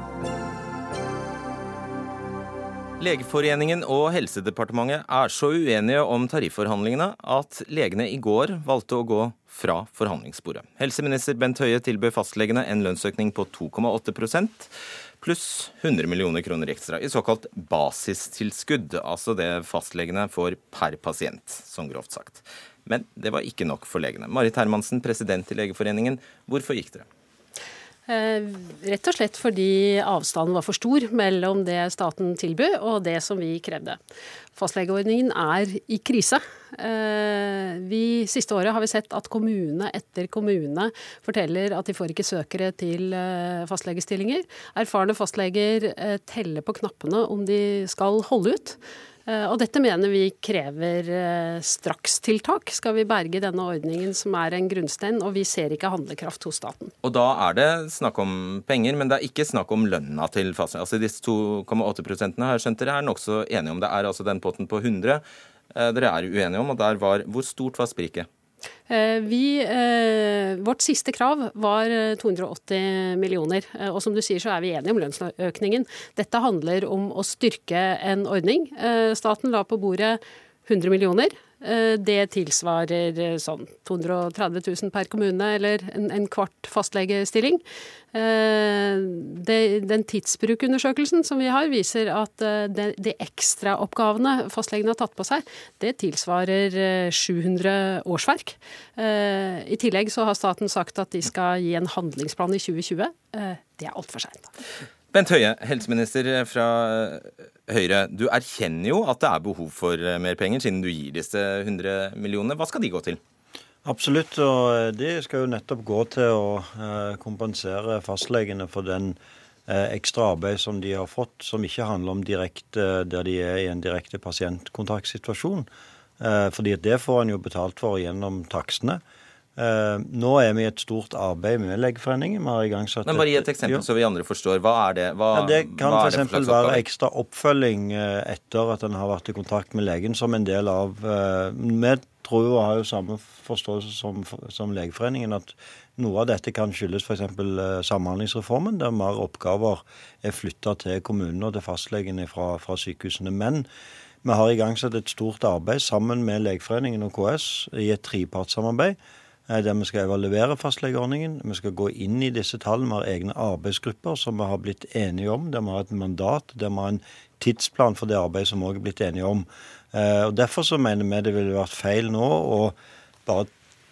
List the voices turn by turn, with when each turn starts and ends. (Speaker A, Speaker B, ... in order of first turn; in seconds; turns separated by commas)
Speaker A: 3.0-27.1, Speaker B: 28.1-34.0, Speaker B: 34.5-56.9, Speaker A: 57.0-68.3, Speaker B: 68.9-104.5, Speaker A: 105.1-113.2, Speaker C: 113.8-125.7, Speaker C: 126.2-129.0, Speaker C: 129.6-133.8, Speaker A: 133.1-136.8, Speaker C: 135.3-153.7, Speaker C: 154.2-159.0, Speaker C: 159.5-173.5